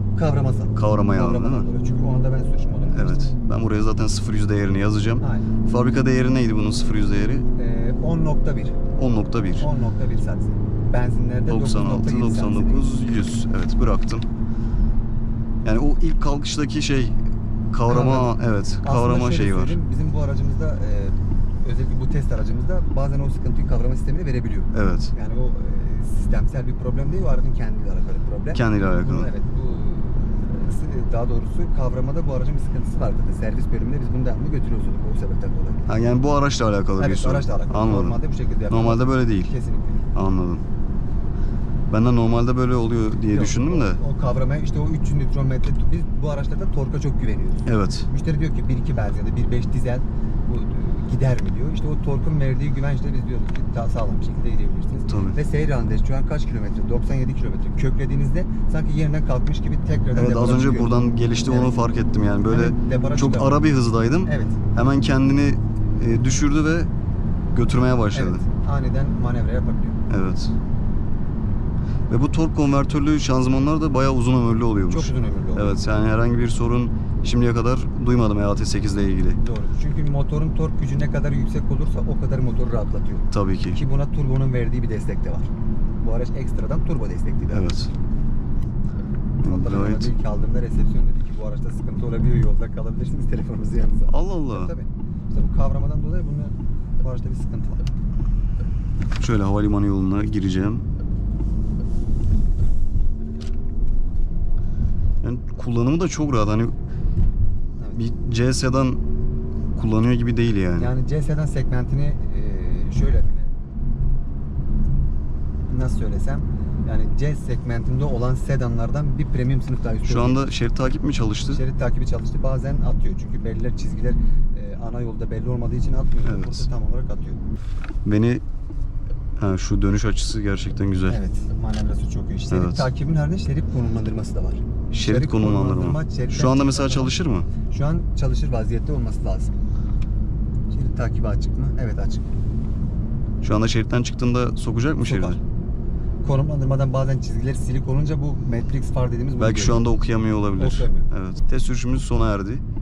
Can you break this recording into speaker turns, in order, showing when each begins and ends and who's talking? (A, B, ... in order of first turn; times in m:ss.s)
0:00.2-0:03.3 A
0:00.8-0:01.6 B
0:02.9-0:07.4 B
0:05.2-0:05.5 A
0:07.6-0:08.8 A
0:09.0-0:09.7 B
0:09.6-0:12.9 A
0:11.5-0:14.3 B
0:15.6-0:19.8 B
0:17.9-0:35.8 A
0:24.7-0:25.1 B
0:28.5-0:29.3 B
0:35.9-0:38.2 B
0:37.0-0:40.1 A
0:38.7-0:39.5 B
0:40.1-0:40.6 B
0:41.9-0:44.0 B
0:43.3-1:01.8 A
0:47.6-0:48.1 B
0:55.1-0:55.4 B
1:00.1-1:06.9 B
1:02.5-1:03.6 A
1:04.2-1:04.6 A
1:07.5-1:08.4 B
1:08.1-1:10.0 A
1:10.1-1:10.5 B
1:12.1-1:19.4 B
1:14.9-1:15.8 A
1:19.4-1:25.5 A
1:23.3-1:23.8 B
1:26.0-1:27.6 A
1:27.5-1:27.9 B
1:29.4-1:30.1 B
1:29.4-1:37.8 A
1:34.1-1:34.7 B
1:39.2-1:40.8 B
1:45.2-1:46.7 B
1:47.9-1:49.0 B
1:49.7-1:50.9 B
1:50.8-1:53.5 A
1:55.7-2:00.5 A
2:00.0-2:01.6 B
2:01.5-2:07.4 A
2:06.2-2:06.7 B
2:08.0-2:08.4 B
2:09.4-2:11.2 B
2:11.1-2:17.1 A
2:12.5-2:12.9 B
2:14.9-2:17.5 B
2:17.7-2:19.6 A
2:20.7-2:22.3 A
2:23.4-2:25.4 B
2:25.0-2:25.4 A
2:26.2-2:29.8 A
2:29.4-2:32.6 B
2:30.6-2:31.1 A